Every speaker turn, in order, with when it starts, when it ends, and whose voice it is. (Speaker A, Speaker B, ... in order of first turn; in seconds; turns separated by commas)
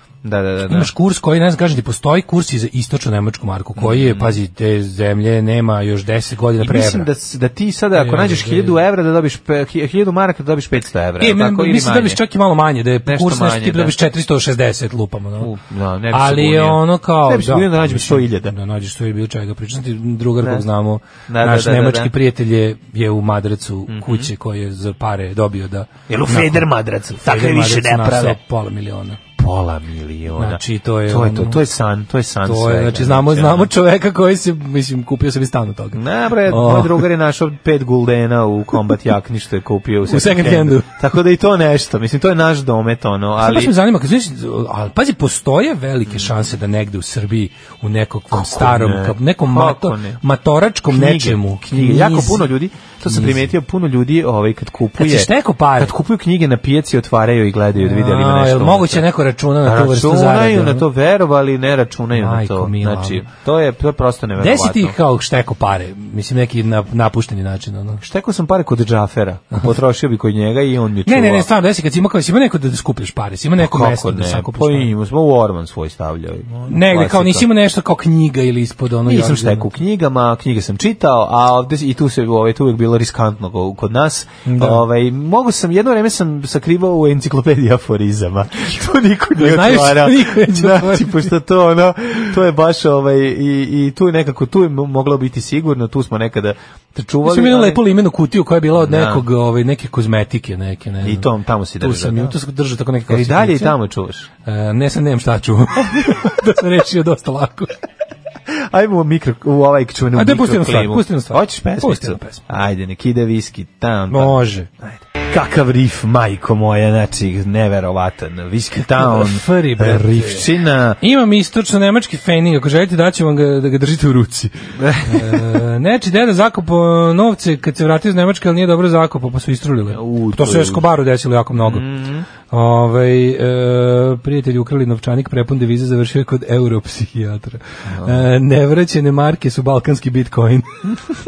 Speaker A: 0.2-0.9, Speaker B: 0.7-7.1, Speaker A: 3.8-4.4, Speaker A: 6.6-12.2, Speaker B: 7.9-8.8, Speaker B: 11.2-15.5, Speaker A: 13.0-13.9, Speaker A: 15.4-18.5, Speaker B: 16.1-26.7, Speaker A: 20.4-20.6, Speaker A: 21.3-22.1, Speaker A: 23.9-24.3, Speaker A: 26.1-28.4, Speaker B: 27.2-29.2, Speaker A: 29.4-33.7, Speaker B: 30.4-31.6, Speaker B: 32.4-37.1, Speaker A: 35.9-43.7, Speaker B: 40.0-40.9, Speaker B: 43.4-52.5, Speaker A: 48.3-50.2, Speaker A: 50.9-59.0, Speaker B: 53.1-53.5, Speaker B: 55.0-55.9, Speaker B: 57.8-60.9, Speaker A: 59.6-65.0, Speaker B: 62.1-63.2, Speaker B: 64.4-68.0, Speaker A: 68.0-71.5, Speaker B: 71.0-74.9, Speaker A: 73.6-77.5, Speaker B: 76.7-79.7, Speaker A: 79.0-97.8, Speaker B: 84.4-84.8, Speaker B: 89.3-91.3, Speaker B: 97.2-103.8, Speaker A: 98.8-99.2, Speaker A: 101.0-102.3, Speaker A: 103.1-104.3, Speaker B: 104.4-107.7, Speaker A: 108.5-121.0, Speaker B: 110.1-112.4, Speaker B: 114.1-114.7, Speaker B: 118.8-120.5, Speaker B: 121.0-131.8, Speaker A: 124.8-125.6, Speaker A: 129.9-130.8, Speaker A: 131.6-132.3, Speaker B: 132.4-140.8, Speaker A: 137.9-138.2